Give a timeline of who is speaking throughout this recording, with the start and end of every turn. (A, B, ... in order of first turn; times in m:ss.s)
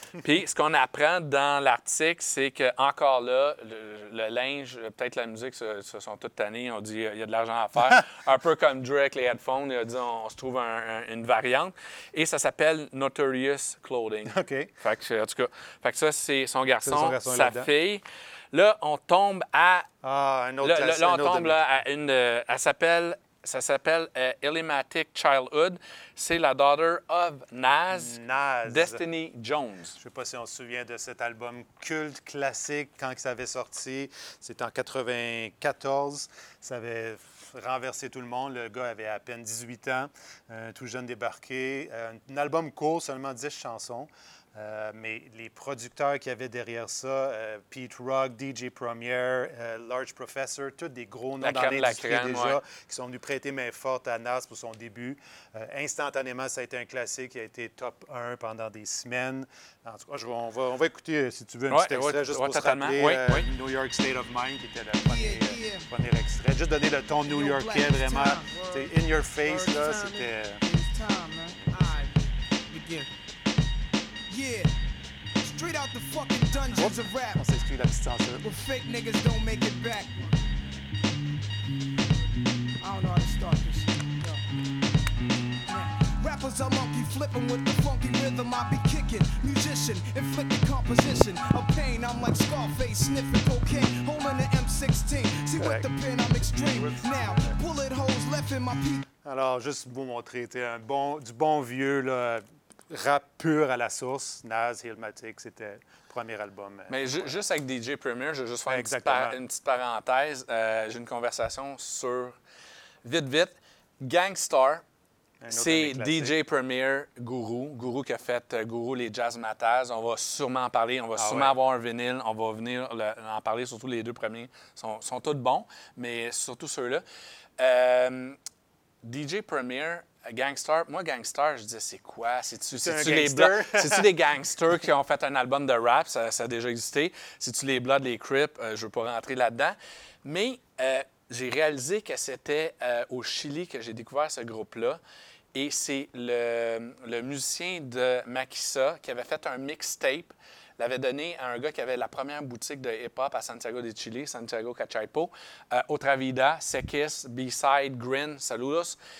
0:00.2-0:19.9 A
0:14.3-0:14.7 B
0:16.8-0:17.7 B
0:20.0-0:21.6 B
0:20.6-0:28.2 A
0:27.9-0:29.0 B
0:28.7-0:30.0 A
0:30.0-1:10.6 B
0:51.4-0:52.6 A
1:01.7-1:03.5 A
1:05.1-1:05.8 C
1:07.3-1:08.8 C
1:09.5-1:12.1 C
1:12.7-1:13.1 C
1:14.3-1:14.7 C
1:15.4-1:17.4 C
1:16.7-1:18.5 B
1:18.4-1:20.4 C
1:22.8-1:24.4 C
1:25.7-1:39.1 C
1:35.5-1:35.9 B
1:36.5-1:37.6 B
1:39.2-1:47.4 B
1:46.9-1:52.4 A
1:48.7-1:49.4 B
1:53.0-1:54.8 A
1:55.4-1:56.4 B
1:55.5-2:07.0 A
2:01.2-2:01.6 B
2:07.6-2:08.4 A
2:09.0-2:25.0 A
2:12.7-2:14.1 B
2:25.5-2:39.0 A